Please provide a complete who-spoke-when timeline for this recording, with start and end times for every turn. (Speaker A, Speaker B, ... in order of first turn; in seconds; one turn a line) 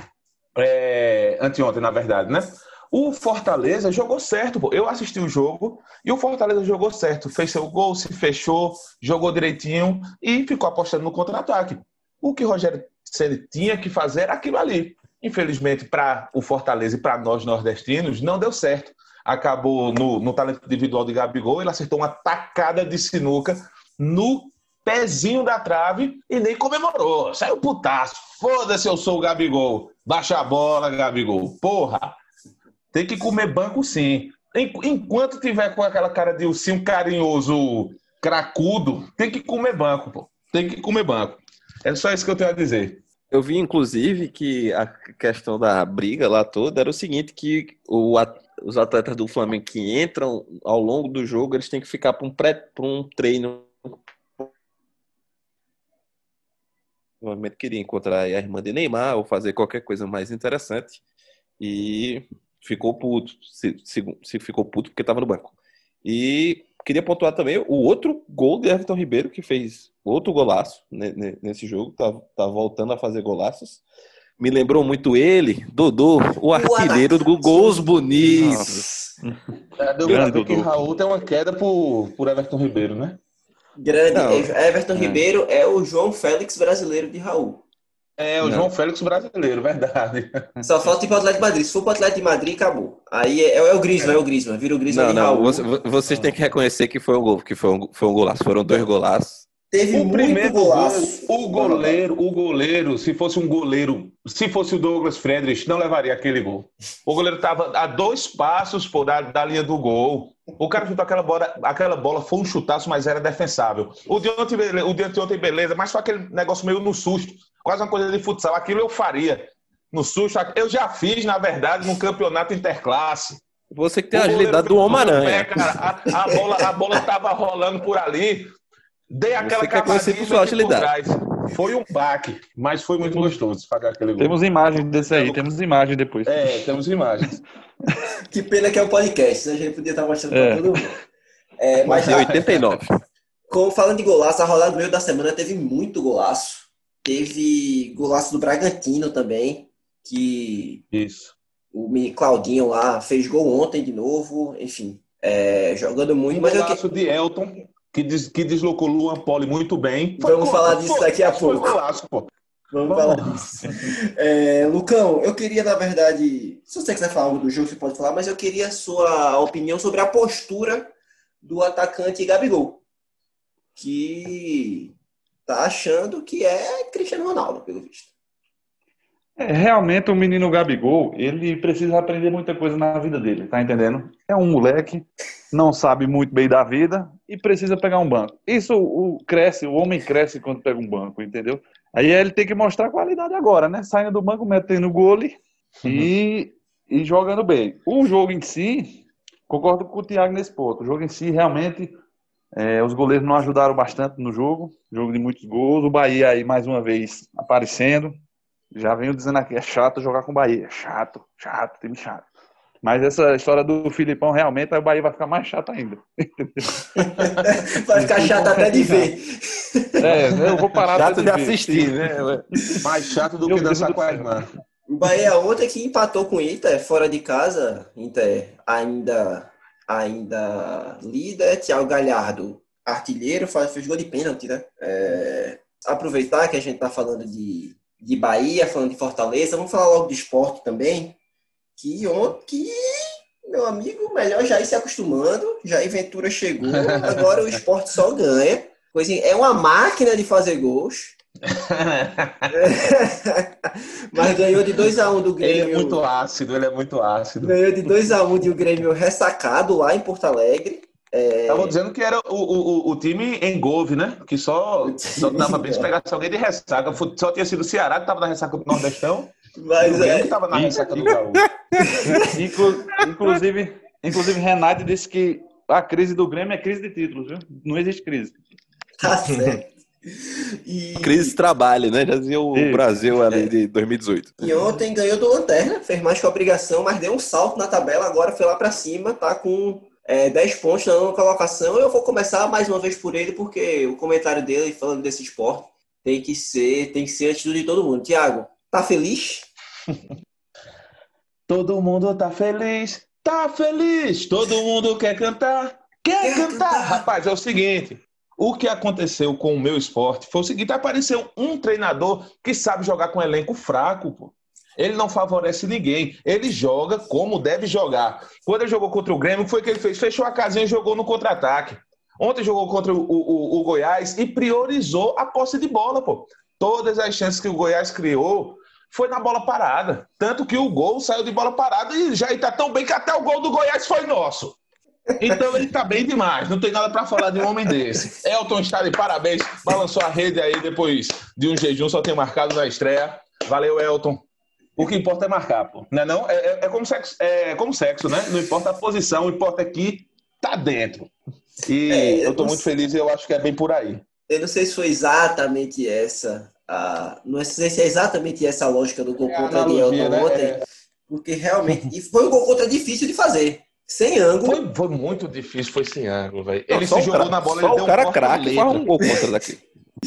Speaker A: 0.5-32.1
Speaker A: 32.9-43.0
Speaker B: 43.3-54.5
Speaker B: 57.2-61.0
Speaker B: 61.6-73.8
Speaker B: 74.4-78.9
Speaker C: 76.5-78.1
Speaker D: 78.2-80.7
Speaker A: 79.8-83.2
Speaker C: 83.8-87.6
Speaker B: 84.1-85.2
Speaker A: 88.2-90.5
Speaker B: 88.4-88.7
Speaker C: 90.6-95.6
Speaker B: 94.9-99.5
Speaker A: 96.0-96.3
Speaker C: 99.7-102.0
Speaker A: 99.9-123.4
Speaker B: 123.7-125.5
Speaker A: 124.1-128.5
Speaker A: 129.1-135.4
Speaker B: 129.4-130.9
Speaker D: 133.0-133.4
Speaker D: 134.2-136.6
Speaker A: 136.2-137.4
Speaker C: 138.3-141.0
Speaker D: 140.3-140.9
Speaker C: 141.6-142.3
Speaker A: 141.8-142.8
Speaker B: 141.9-142.9
Speaker C: 143.5-150.8
Speaker A: 150.9-151.3
Speaker C: 151.7-156.8
Speaker A: 156.3-162.3
Speaker C: 160.2-161.8
Speaker C: 162.7-172.8
Speaker A: 162.8-163.5
Speaker C: 173.8-174.9
Speaker C: 175.5-178.1
Speaker D: 179.4-201.9
Speaker A: 195.8-196.1
Speaker D: 202.5-208.2
Speaker D: 208.7-212.2
Speaker D: 212.8-217.2
Speaker C: 216.9-220.1
Speaker D: 217.9-219.1
Speaker D: 220.0-222.0
Speaker A: 220.1-221.0
Speaker B: 220.9-222.4
Speaker A: 222.8-224.5
Speaker D: 223.4-224.5
Speaker C: 224.9-241.2
Speaker C: 241.8-251.2
Speaker A: 246.7-247.3
Speaker A: 251.4-252.5
Speaker C: 252.5-256.0
Speaker A: 255.4-258.1
Speaker C: 257.4-261.8
Speaker A: 261.5-271.5
Speaker C: 264.8-265.9
Speaker C: 269.5-270.4
Speaker D: 270.5-271.2
Speaker C: 271.9-272.3
Speaker D: 272.0-278.4
Speaker C: 279.0-281.4
Speaker A: 279.3-279.6
Speaker B: 281.0-284.4
Speaker D: 282.5-282.9
Speaker C: 284.4-299.5
Speaker A: 301.5-334.6
Speaker C: 306.2-307.1
Speaker A: 335.2-344.2
Speaker A: 344.8-351.1
Speaker A: 351.7-354.0
Speaker C: 351.9-352.7
Speaker C: 354.3-360.6
Speaker A: 359.2-360.6
Speaker C: 361.1-364.6
Speaker A: 364.4-368.9
Speaker B: 366.7-369.6